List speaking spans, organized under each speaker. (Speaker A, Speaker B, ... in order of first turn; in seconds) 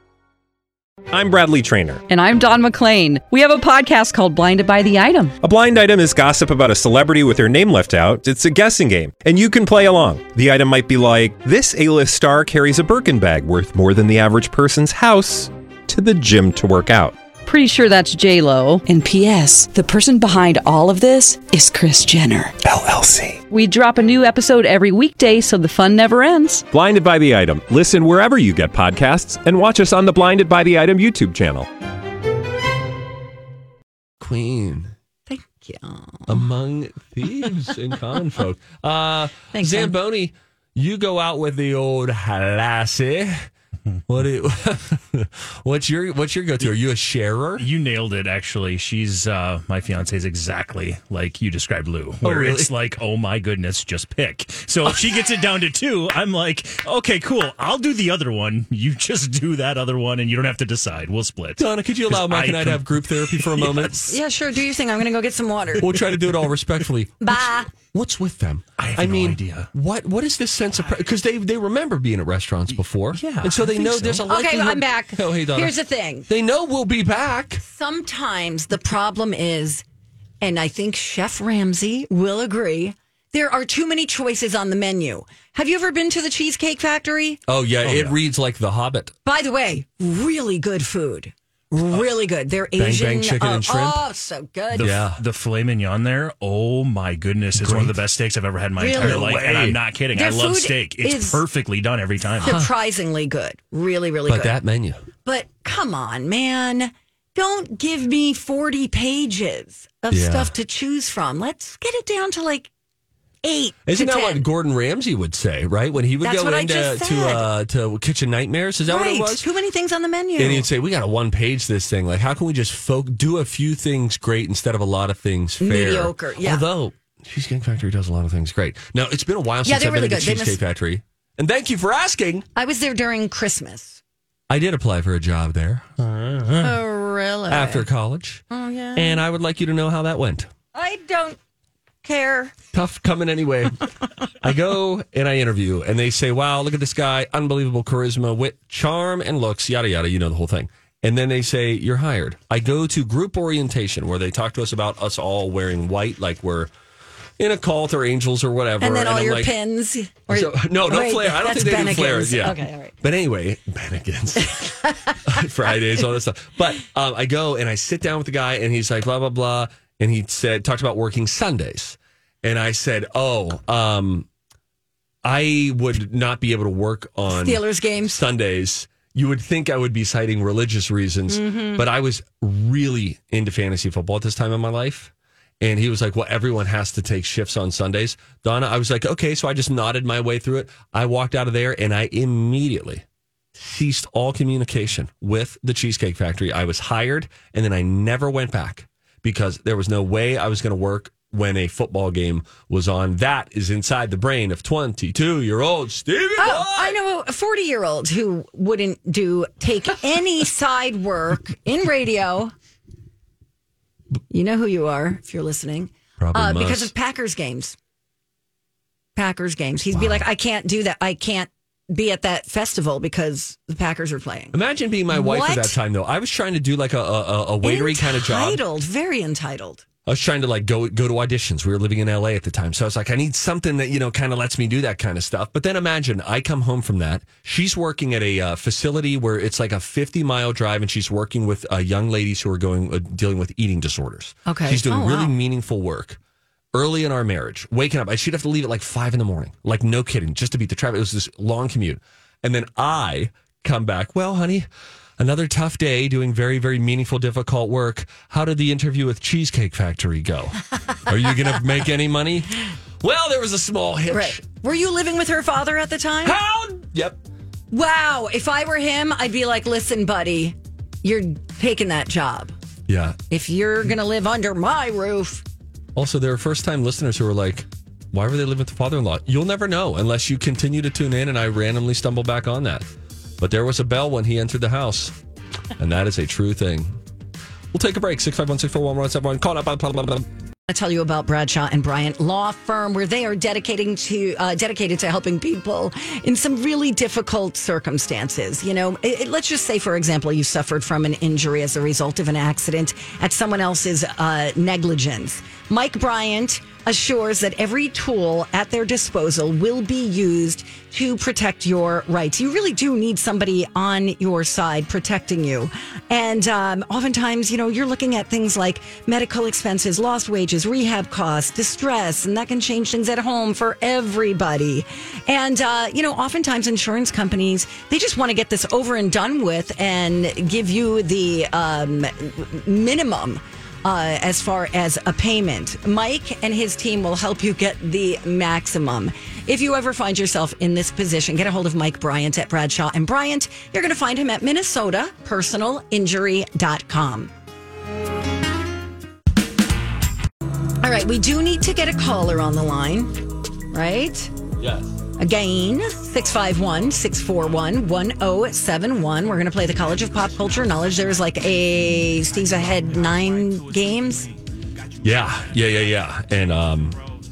Speaker A: 1.1-2.0, 5.4-17.1, 22.6-23.4, 26.7-31.7
Speaker B: 2.1-5.3, 17.4-22.6, 23.5-26.6
Speaker C: 34.2-34.9, 36.3-43.5, 44.1-47.6, 52.2-52.7, 61.6-64.2, 65.8-75.8, 76.3-77.6, 87.5-89.1, 91.7-92.0, 92.8-94.0, 94.8-95.2, 97.5-98.0, 98.9-99.8, 102.4-102.7, 104.3-105.0, 110.1-110.5, 113.8-119.5, 120.4-132.5, 134.5-136.8, 137.5-138.4, 138.9-140.5, 142.7-143.8, 144.4-156.7, 157.4-159.6, 160.3-174.3, 175.2-193.0, 193.6-207.0, 216.2-216.9, 219.9-220.2, 224.5-228.6, 230.1-246.2, 246.7-264.4, 266.2-267.2, 272.9-273.2, 275.9-282.9, 283.4-285.1, 285.8-287.0, 287.7-290.3, 354.6-354.9, 365.0-367.0
Speaker D: 35.3-36.4, 39.5-39.9, 64.1-65.9, 67.2-67.7, 74.3-76.3, 77.6-79.8, 80.4-87.4, 89.2-94.9, 98.8-99.3, 100.1-101.4, 102.4-104.5, 105.2-112.7, 113.4-114.4, 116.2-117.5, 118.9-120.7, 125.6-126.7, 129.6-130.6, 132.5-134.0, 136.6-137.8, 138.5-139.2, 140.7-141.4, 142.0-142.5, 158.8-162.9, 164.4-165.2, 177.3-178.2, 181.3-181.8, 206.4-212.5, 214.3-217.8, 219.2-224.6, 225.1-225.8, 227.6-229.8, 244.4-245.3, 264.1-266.4, 267.7-272.5, 273.3-275.4, 290.7-347.3, 350.8-353.2, 353.7-354.3, 355.2-364.3
Speaker E: 47.6-63.9, 68.8-69.7, 73.1-74.2, 87.8-88.2, 94.7-102.6